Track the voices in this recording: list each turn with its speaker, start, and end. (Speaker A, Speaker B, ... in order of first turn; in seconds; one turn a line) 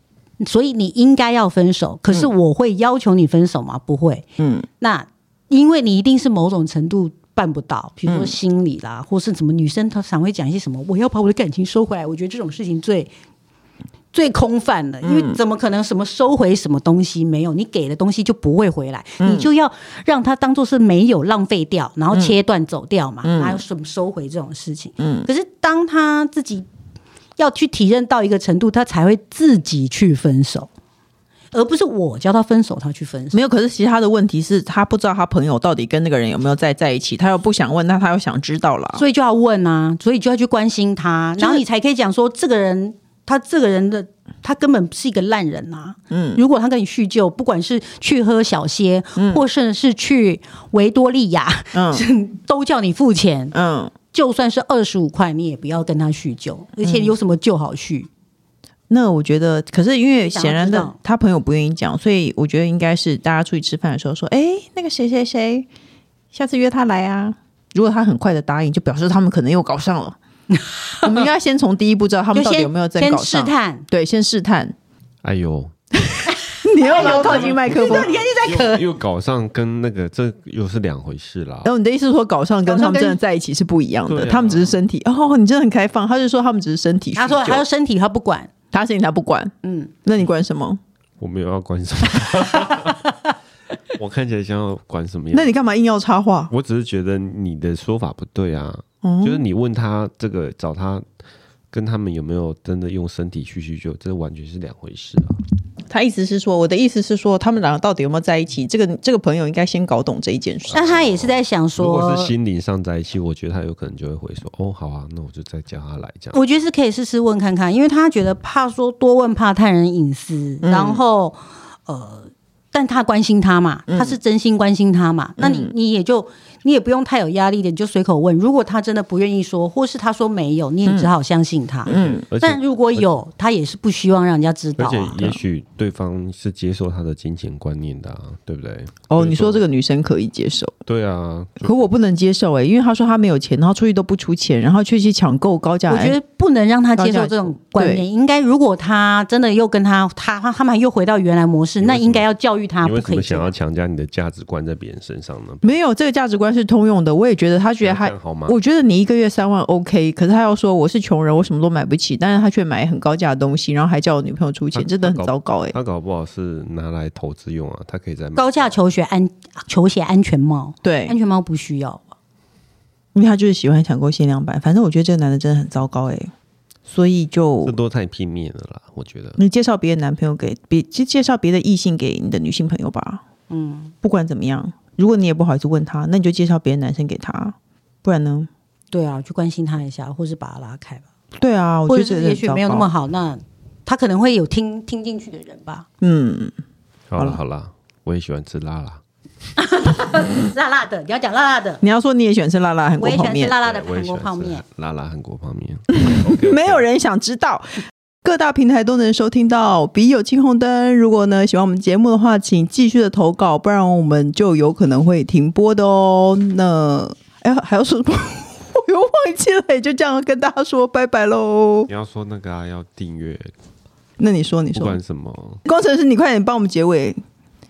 Speaker A: 0.4-4.3
Speaker B: 4.4-4.7
Speaker A: 4.8-13.1
Speaker B: 8.1-8.3
Speaker A: 14.1-26.7
Speaker B: 15.0-15.4
Speaker B: 19.2-19.5
Speaker B: 23.2-23.6
Speaker B: 25.0-25.3
Speaker A: 27.4-30.7
Speaker A: 31.5-33.4
Speaker B: 33.3-39.0
Speaker A: 38.9-53.5
Speaker B: 41.4-41.6
Speaker B: 46.1-46.4
Speaker B: 49.2-49.4
Speaker B: 51.7-52.1
Speaker B: 53.5-53.9
Speaker A: 54.1-58.1
Speaker B: 56.8-57.1
Speaker B: 58.9-65.7
Speaker A: 60.3-61.0
Speaker B: 66.3-70.2
Speaker A: 70.5-71.2
Speaker B: 71.0-74.8
Speaker A: 72.3-73.9
Speaker C: 75.2-75.7
Speaker B: 76.1-78.1
Speaker A: 76.8-78.9
Speaker C: 76.9-81.7
Speaker B: 81.7-87.7
Speaker A: 82.7-83.2
Speaker C: 84.1-84.8
Speaker A: 87.2-88.5
Speaker B: 88.7-89.5
Speaker A: 89.6-89.9
Speaker B: 90.0-90.8
Speaker C: 91.2-93.0
Speaker C: 94.0-95.5
Speaker B: 95.3-96.5
Speaker C: 96.5-101.0
Speaker B: 99.0-99.4
Speaker C: 101.7-105.4
Speaker B: 105.9-110.9
Speaker C: 110.7-116.4
Speaker A: 110.7-112.3
Speaker A: 116.3-135.3
Speaker B: 120.6-121.0
Speaker B: 123.9-124.2
Speaker B: 125.4-125.7
Speaker C: 131.9-133.0
Speaker B: 131.9-132.2
Speaker C: 134.8-139.7
Speaker B: 139.1-140.7
Speaker C: 140.9-141.9
Speaker B: 141.6-146.2
Speaker A: 145.9-153.5
Speaker B: 147.0-148.0
Speaker C: 151.8-152.3
Speaker C: 152.8-155.7
Speaker B: 155.6-165.8
Speaker C: 157.8-158.6
Speaker C: 164.7-168.8
Speaker A: 168.4-172.2
Speaker B: 170.8-171.1
Speaker B: 173.2-176.3
Speaker B: 176.9-177.7
Speaker C: 177.6-179.4
Speaker B: 179.4-183.2
Speaker A: 183.5-183.9
Speaker B: 184.0-188.5
Speaker A: 188.9-191.1
Speaker B: 191.4-192.9
Speaker A: 191.9-195.9
Speaker B: 196.0-196.5
Speaker C: 197.1-199.0
Speaker A: 199.6-201.8
Speaker B: 201.8-203.5
Speaker A: 203.0-204.6
Speaker C: 203.6-206.9
Speaker B: 206.0-221.9
Speaker C: 221.9-223.5
Speaker B: 224.2-225.0
Speaker C: 224.8-225.6
Speaker B: 225.6-227.2